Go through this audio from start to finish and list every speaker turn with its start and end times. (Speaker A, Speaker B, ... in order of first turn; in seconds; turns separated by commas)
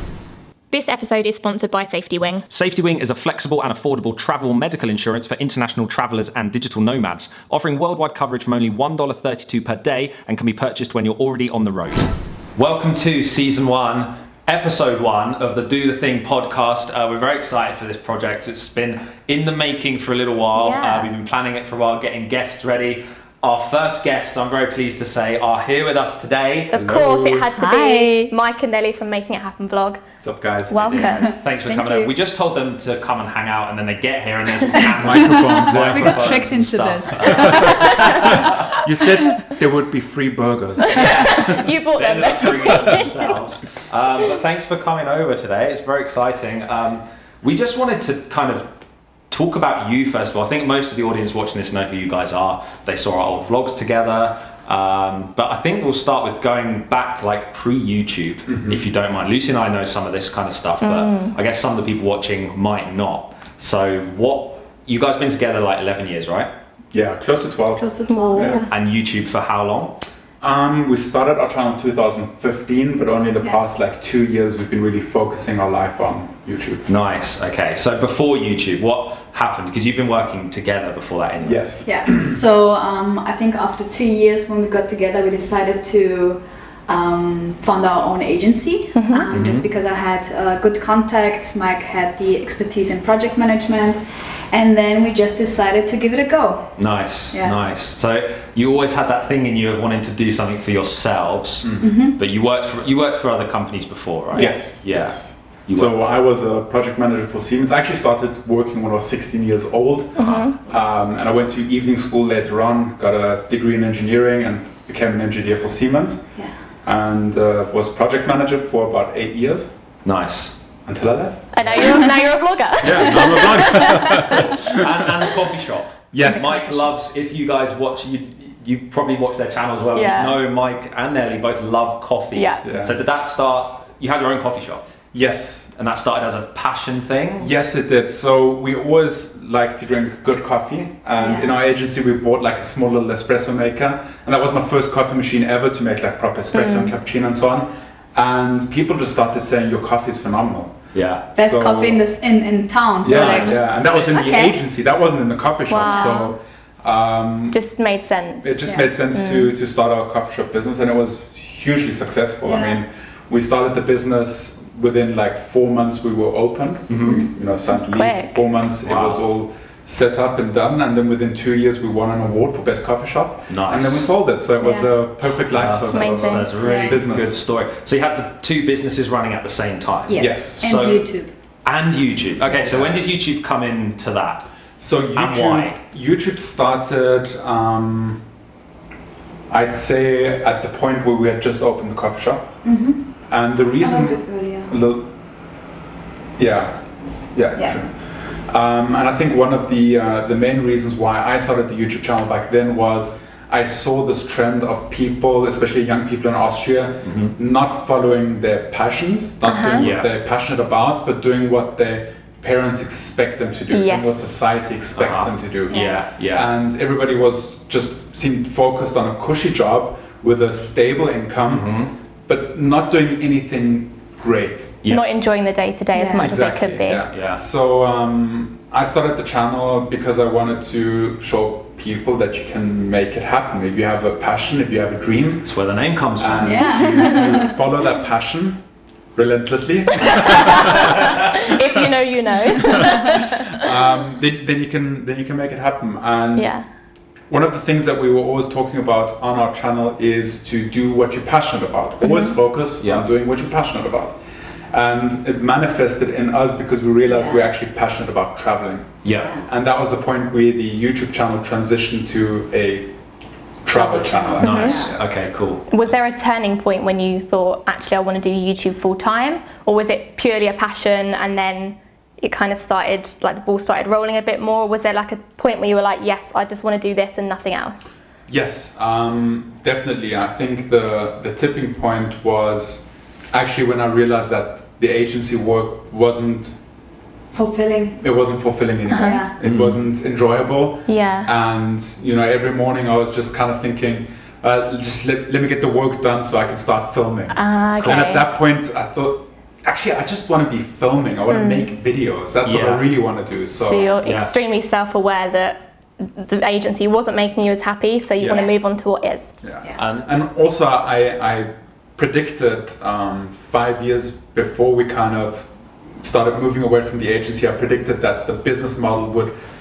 Speaker A: 0.7-2.5, Speaker B: 2.5-26.7, Speaker A: 20.5-21.1, Speaker C: 26.7-27.5, Speaker A: 26.7-30.0, Speaker D: 27.6-28.3, Speaker C: 30.2-31.0, Speaker A: 30.7-31.3, Speaker B: 30.9-38.5, Speaker D: 31.0-32.1, Speaker D: 34.8-38.5, Speaker C: 34.9-36.5, Speaker C: 37.3-41.6, Speaker A: 40.9-43.3, Speaker B: 40.9-48.7, Speaker C: 42.6-43.0, Speaker B: 49.3-66.5, Speaker C: 58.5-58.8, Speaker A: 60.8-61.3, Speaker C: 66.9-68.6, Speaker D: 67.8-68.7, Speaker A: 68.1-68.7, Speaker B: 68.7-70.0, Speaker C: 70.4-76.9, Speaker B: 76.9-81.6, Speaker C: 81.4-82.4, Speaker D: 81.8-96.7, Speaker A: 89.0-89.3, Speaker B: 89.3-89.7, Speaker B: 96.8-105.9, Speaker D: 97.3-97.6, Speaker D: 101.8-102.2, Speaker C: 104.3-116.2, Speaker A: 110.2-110.6, Speaker B: 110.2-110.5, Speaker C: 116.8-119.7, Speaker B: 120.0-120.6, Speaker C: 120.9-122.1, Speaker A: 121.5-124.8, Speaker C: 122.8-125.1, Speaker B: 124.2-134.8, Speaker C: 126.1-126.7, Speaker A: 129.9-130.4, Speaker A: 132.3-132.7, Speaker C: 132.6-133.0, Speaker C: 135.1-135.7, Speaker B: 135.8-137.5, Speaker C: 137.4-150.8, Speaker D: 141.2-141.5, Speaker A: 146.6-146.9, Speaker B: 150.9-151.3, Speaker C: 151.3-152.0, Speaker D: 151.4-154.6, Speaker C: 153.0-157.6, Speaker B: 153.1-153.4, Speaker A: 155.7-156.3, Speaker A: 157.5-158.6, Speaker C: 158.4-177.4, Speaker A: 159.1-159.5, Speaker D: 162.4-162.8, Speaker B: 166.9-167.2, Speaker D: 167.0-167.3, Speaker A: 167.7-168.4, Speaker B: 168.8-169.2, Speaker B: 173.5-174.1, Speaker D: 174.6-174.9, Speaker B: 175.5-181.1, Speaker A: 175.9-176.5, Speaker D: 176.6-177.0, Speaker D: 180.1-181.3, Speaker C: 180.2-180.8, Speaker B: 181.7-184.5, Speaker C: 182.5-183.0, Speaker C: 184.8-188.2, Speaker B: 185.2-185.8, Speaker C: 189.5-192.6, Speaker D: 192.6-193.1, Speaker C: 193.3-195.1, Speaker D: 193.8-194.8, Speaker C: 196.4-221.8, Speaker B: 207.0-207.3, Speaker A: 209.4-209.9, Speaker B: 209.8-210.1, Speaker A: 213.7-214.2, Speaker B: 215.0-216.5, Speaker D: 215.7-216.0, Speaker B: 221.5-221.9, Speaker C: 222.3-224.8, Speaker A: 224.9-227.1, Speaker D: 225.9-226.3, Speaker C: 226.2-235.5, Speaker B: 227.1-227.4, Speaker B: 235.4-237.2, Speaker C: 236.2-238.6, Speaker D: 236.4-237.5, Speaker C: 239.2-241.8, Speaker A: 240.3-243.6, Speaker C: 242.6-246.5, Speaker A: 246.4-246.7, Speaker C: 247.3-254.2, Speaker B: 252.8-253.1, Speaker C: 254.7-262.9, Speaker D: 257.1-257.4, Speaker B: 259.0-259.4, Speaker C: 263.6-264.9, Speaker D: 263.7-264.9, Speaker B: 264.4-265.7, Speaker A: 264.4-264.9, Speaker A: 265.7-277.9, Speaker C: 278.3-286.6, Speaker D: 287.3-288.0, Speaker C: 288.0-304.0, Speaker A: 288.9-289.2, Speaker D: 289.0-289.3, Speaker B: 289.4-289.8, Speaker A: 290.9-291.3, Speaker A: 297.3-298.2, Speaker B: 297.8-298.1, Speaker A: 301.3-301.7, Speaker B: 302.4-302.9, Speaker A: 303.6-309.3, Speaker B: 304.0-304.3, Speaker C: 308.2-308.6, Speaker C: 309.4-315.5, Speaker B: 309.8-310.1, Speaker C: 316.0-319.3